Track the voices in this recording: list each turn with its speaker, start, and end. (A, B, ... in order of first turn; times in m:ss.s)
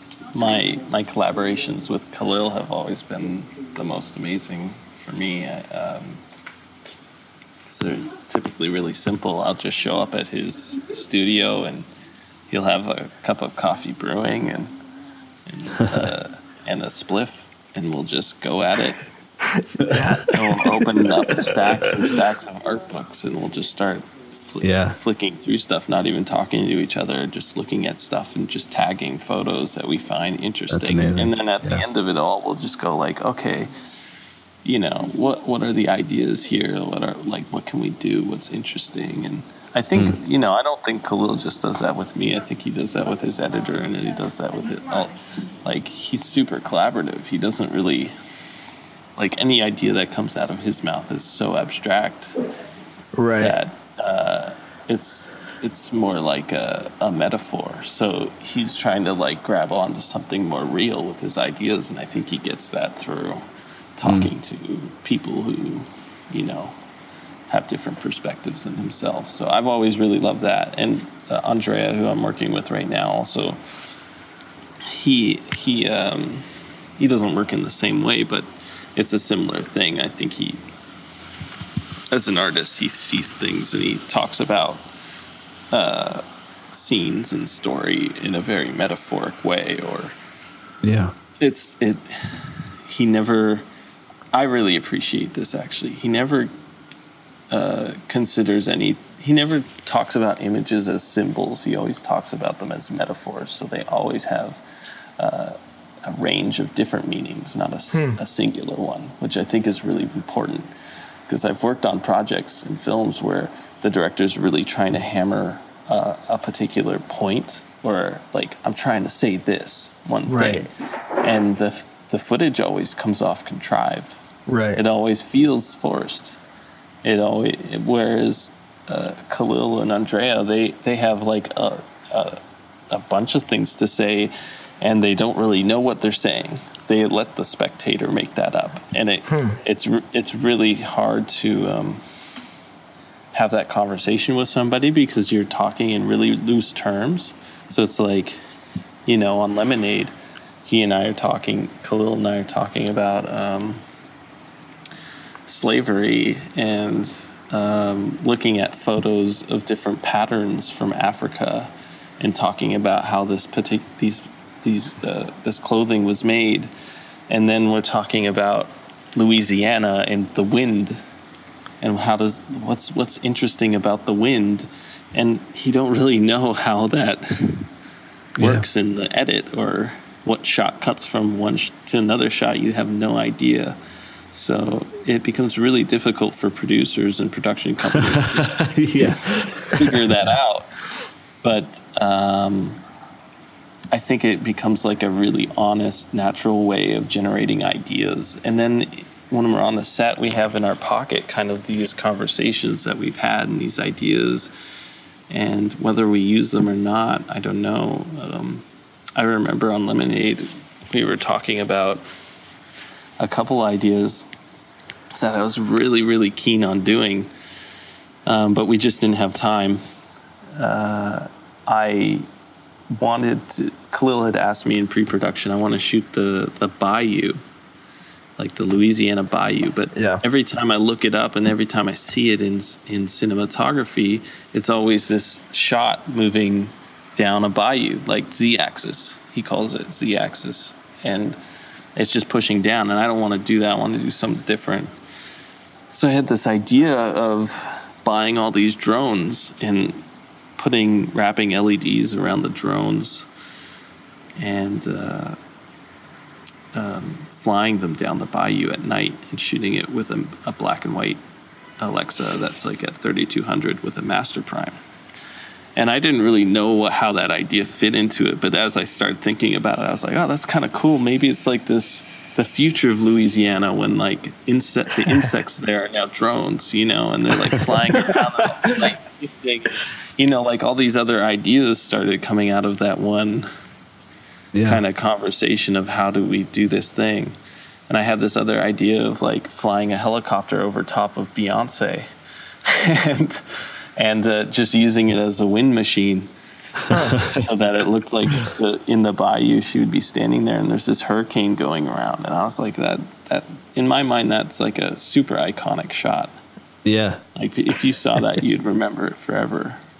0:00.3-0:06.2 A
0:07.6-0:11.9 A
0:12.5-0:14.8 A
0:15.4-0:19.0 A
0:19.6-0:20.7 B
0:20.2-0:33.7 A
0:24.6-0:25.0 C
0:30.7-0:31.8 C
0:34.6-0:48.1 A
0:49.2-0:52.4 A
0:53.1-0:53.6 B
0:53.4-1:03.4 A
1:04.0-1:06.8 A
1:04.0-1:04.3 C
1:07.5-1:13.6 A
1:14.8-1:20.6 A
1:22.1-1:24.9 A
1:25.7-1:30.1 A
1:30.8-1:31.1 C
1:31.4-1:33.6 A
1:34.3-1:36.5 A
1:37.5-1:44.6 A
1:45.2-1:50.7 A
1:47.9-1:48.2 B
1:51.3-2:04.2 A
2:00.2-2:00.7 B
2:04.5-2:04.8 B
2:04.7-2:06.4 A
2:07.0-2:22.0 A
2:19.3-2:19.6 B
2:23.3-2:28.4 A
2:29.0-2:30.1 A
2:30.6-2:33.8 A
2:35.4-2:46.7 A
2:47.3-2:51.0 A
2:51.8-2:57.7 A
2:58.4-2:58.6 C
2:58.4-3:03.8 A
3:04.3-3:10.7 A
3:08.5-3:10.2 C
3:11.4-3:12.8 A
3:13.9-3:24.5 A
3:25.3-3:32.0 A
3:33.2-3:34.3 A
3:35.1-3:37.3 A
3:38.2-3:39.8 A
3:40.6-3:42.3 A
3:42.9-3:47.4 A
3:48.4-4:01.4 A
3:49.9-3:50.2 B
4:01.9-4:04.9 A
4:05.9-4:10.0 A
4:10.6-4:13.3 A
4:14.4-4:15.4 A
4:16.7-4:21.2 A
4:21.8-4:24.8 A
4:25.8-4:43.5 A
4:44.5-4:44.8 C
4:44.6-4:47.4 A
4:47.9-4:52.1 A
4:52.6-4:56.3 A
4:56.9-4:57.3 B
4:57.2-5:06.4 A
5:06.8-5:07.2 C
5:07.3-5:09.8 A